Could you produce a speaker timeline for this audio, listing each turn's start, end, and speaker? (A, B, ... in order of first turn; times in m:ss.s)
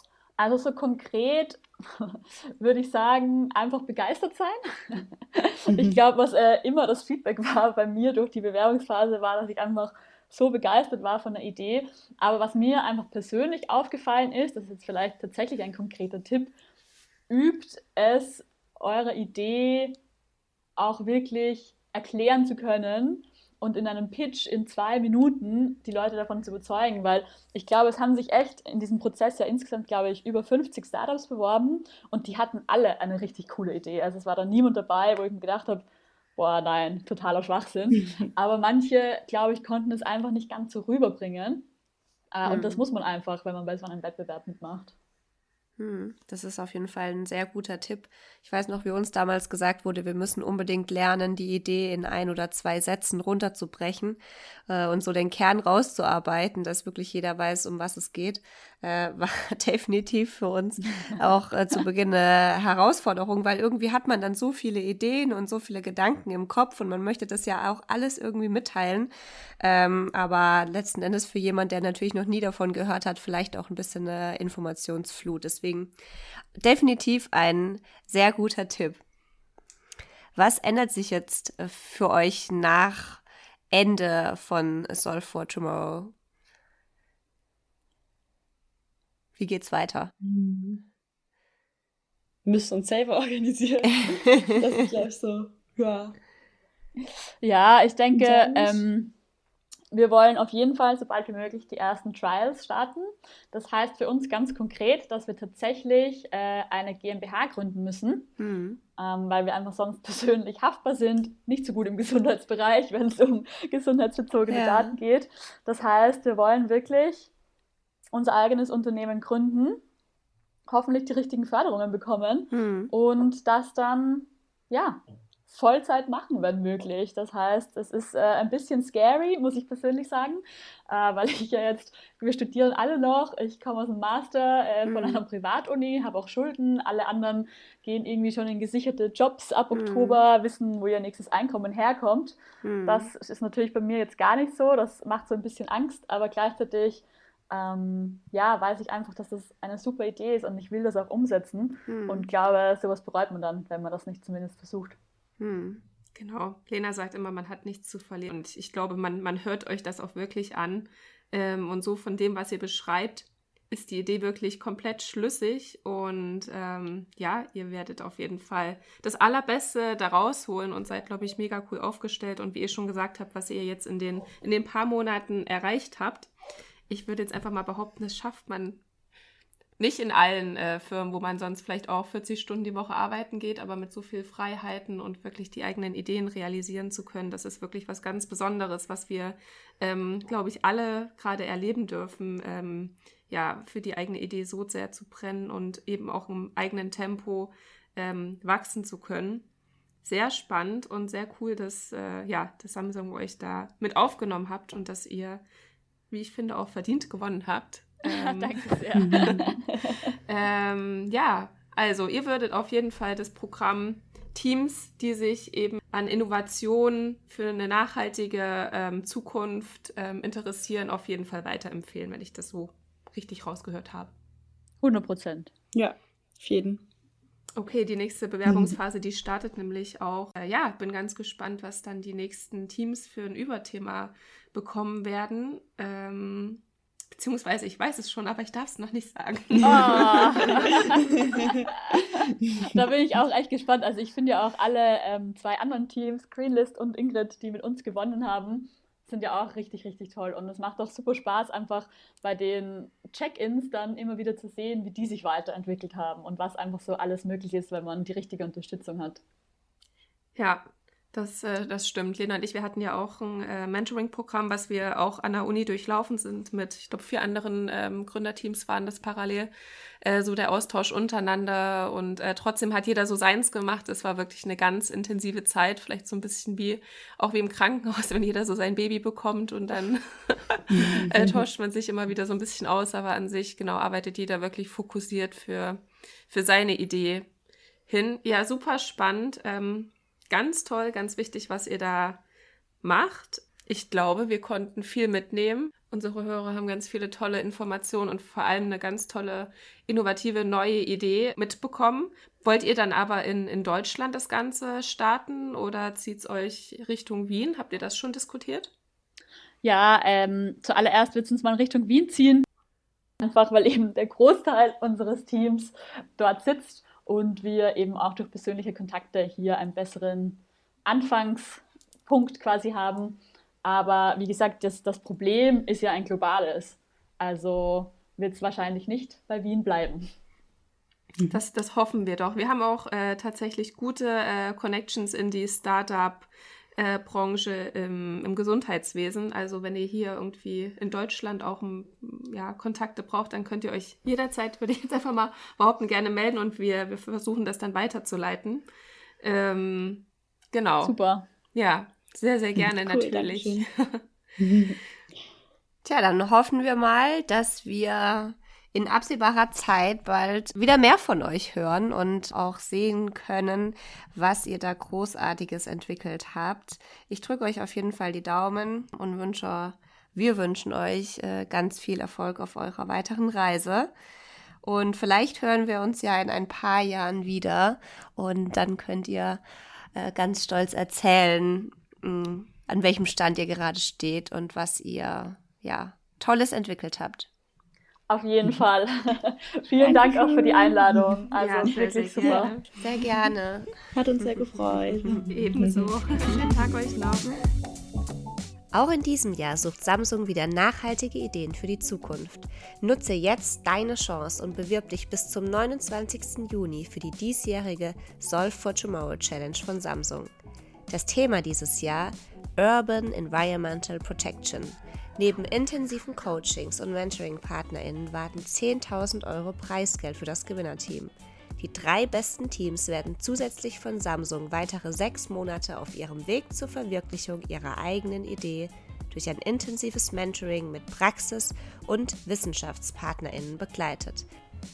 0:00.4-0:16.5 A
0:17.3-0:20.0 A
0:20.8-0:35.8 A
0:36.4-0:41.6 A
0:38.0-0:38.2 B
0:42.3-0:44.9 A
0:42.4-0:42.8 C
0:45.8-1:15.9 C
1:16.6-1:19.0 C
1:20.3-1:26.1 C
1:29.4-1:30.1 C
1:30.2-1:30.8 B
1:32.4-1:36.2 B
1:37.4-1:39.1 A
1:38.1-1:38.8 B
1:39.9-1:48.3 A
1:48.4-1:48.8 C
1:49.0-1:57.3 A
1:54.5-1:55.0 C
1:58.1-1:59.8 A
2:00.7-2:35.0 A
2:02.5-2:02.9 C
2:14.9-2:15.2 C
2:19.7-2:20.2 C
2:22.6-2:23.1 C
2:31.9-2:32.2 C
2:35.4-2:35.8 C
2:36.2-2:56.3 D
2:56.9-2:58.8 D
2:59.8-3:19.4 D
3:20.0-3:25.4 D
3:26.1-3:29.3 D
3:28.0-3:30.1 A
3:29.0-3:29.4 B
3:30.3-3:44.1 D
3:44.8-3:45.5 A
3:45.7-3:46.8 B
3:47.6-3:56.6 D
3:48.4-3:48.7 B
3:57.1-4:00.9 D
3:59.6-4:19.2 A
4:01.2-4:01.6 B
4:20.4-4:29.5 D
4:30.0-4:47.3 D
4:40.7-4:41.4 B
4:47.9-4:52.2 D
4:52.8-5:08.7 D
5:09.6-5:12.4 A
5:13.2-5:30.1 A
5:31.3-5:48.6 D
5:49.2-5:50.9 D
5:50.8-5:51.2 A
5:51.5-5:54.0 D
5:52.6-5:53.7 B
5:54.4-5:54.8 B
5:55.8-6:13.9 C
6:14.6-6:19.4 C
6:19.9-6:27.3 C
6:28.1-6:32.5 A
6:29.8-6:31.2 B
6:31.4-6:32.7 D
6:32.2-6:34.3 C
6:33.9-6:35.9 B
6:35.0-6:35.3 C
6:35.3-6:37.3 D
6:38.7-6:50.3 C
6:50.9-7:14.3 C